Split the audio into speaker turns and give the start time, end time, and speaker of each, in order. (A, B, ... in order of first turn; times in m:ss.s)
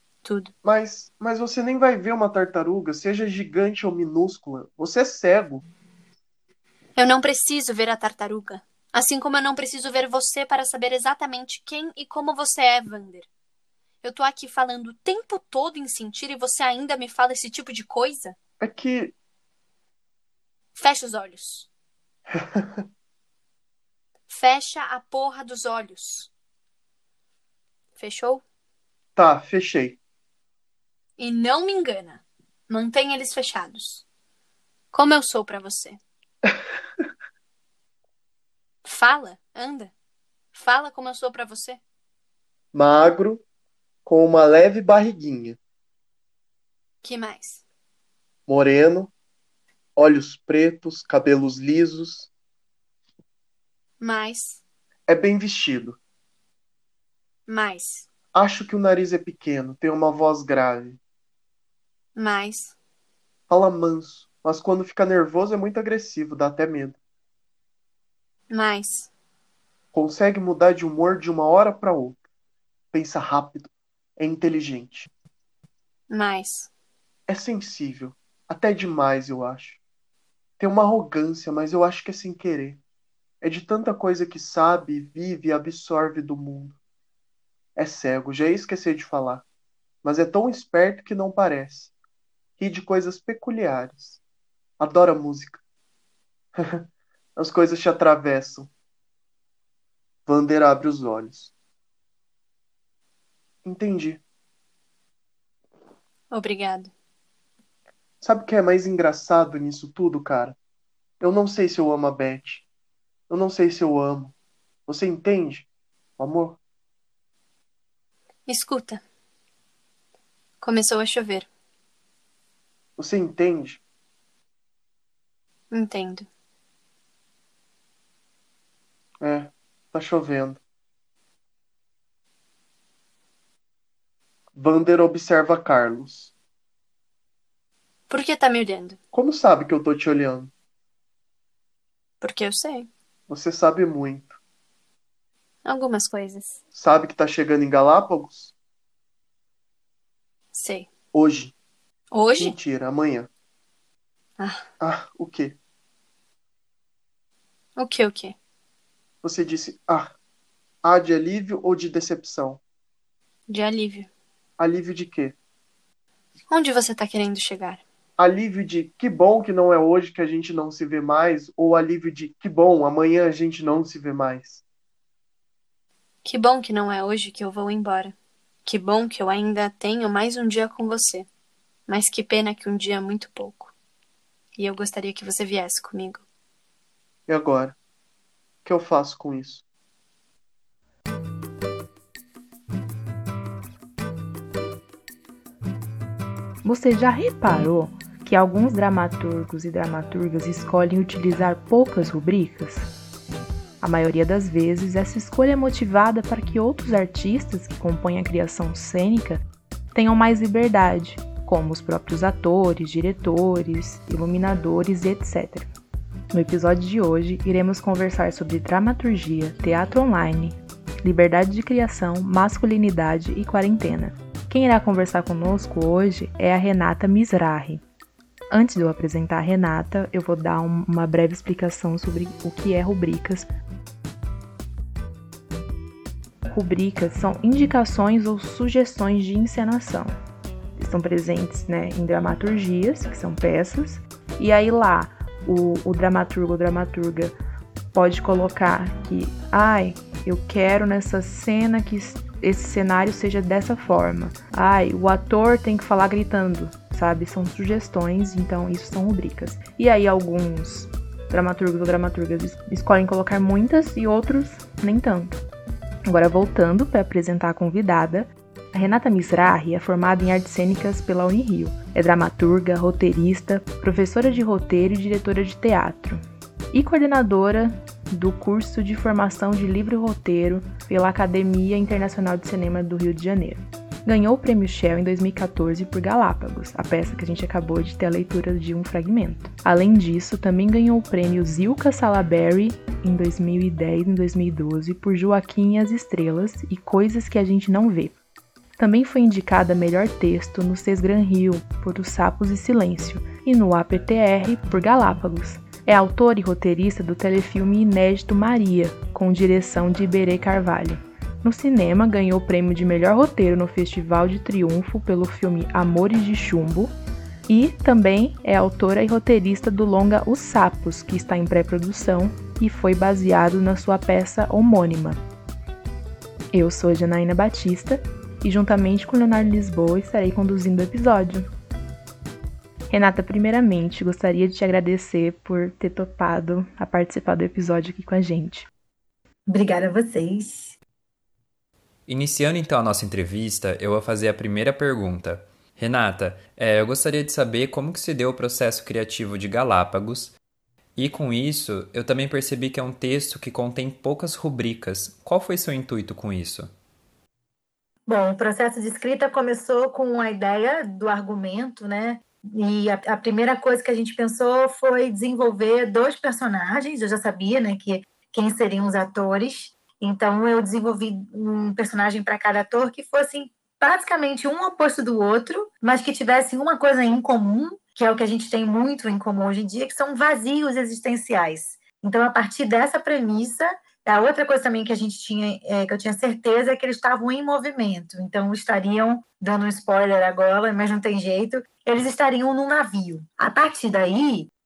0:00.2-0:00.5 A
0:00.6-0:05.6 B
0:07.0-0:13.3 A
0:14.0-0:18.4 A
0:18.6-0:19.1 B
0:20.8-0:21.7 A
0:22.3-0:22.8 B
0:24.3-0:26.3 A
0:28.0-0:28.4 A
0:29.2-0:30.0 B
0:31.2-0:34.0 A
0:34.9-0:36.0 A
0:38.8-0:39.9 A
0:40.5-0:41.8 A
0:42.7-0:43.4 B
0:44.0-0:45.6 B
0:47.0-0:47.6 A
0:48.5-0:49.1 B
0:50.0-0:52.3 B
0:54.0-0:54.6 A
0:55.1-0:56.0 B
0:57.5-0:58.1 A
0:58.3-1:01.0 B
1:02.2-1:02.8 A
1:03.5-1:07.0 B
1:08.5-1:09.1 A
1:09.9-1:12.2 B
1:12.9-1:15.1 B
1:16.1-1:16.7 A
1:17.3-1:19.8 B
1:20.6-1:22.8 B
1:23.4-1:26.8 B
1:27.8-1:29.4 B
1:30.0-1:31.9 B
1:32.6-1:34.2 B
1:34.8-1:35.6 B
1:36.6-1:36.8 B
1:37.4-1:38.7 B
1:40.3-1:41.5 B
1:43.6-1:44.2 B
1:46.3-1:46.9 A
1:48.2-1:50.6 B
1:51.2-1:52.6 B
1:53.3-1:54.3 B
1:54.9-1:55.7 B
1:56.2-1:56.6 B
1:58.5-1:59.0 A
2:00.6-2:01.5 A
2:03.0-2:03.8 B
2:05.7-2:06.3 A
2:09.2-2:10.6 B
2:14.6-2:16.3 B
2:18.1-2:19.0 A
2:19.1-2:20.5 B
2:22.2-2:22.9 A
2:23.3-2:24.4 B
2:25.6-2:26.6 A
2:26.7-2:28.5 B
2:30.5-2:30.9 A
2:31.1-2:31.5 B
2:32.1-2:32.6 A
2:32.4-2:33.3 B
2:34.4-2:34.6 A
2:34.8-2:35.6 B
2:37.8-2:38.4 A
2:39.2-2:40.1 B
2:40.8-2:42.6 B
2:43.5-2:44.1 A
2:44.6-2:45.4 B
2:46.5-2:47.8 A
2:48.2-2:54.6 B
2:56.2-3:01.3 A
3:01.9-3:03.7 A
3:04.6-3:06.2 A
3:07.3-3:07.8 B
3:08.6-3:09.6 B
3:16.6-3:22.9 C
3:23.8-3:29.4 C
3:29.9-3:35.7 C
3:36.3-3:47.8 C
3:48.5-3:53.5 C
3:56.5-4:00.1 C
4:00.8-4:07.4 C
4:07.9-4:25.4 C
4:26.1-4:58.2 C
4:58.8-5:16.9 C
5:17.5-5:25.2 C
5:26.5-5:31.5 C
5:32.9-5:38.7 C
5:39.5-5:40.8 D
5:42.1-5:50.3 E
5:51.0-5:56.7 E
5:58.1-6:34.5 D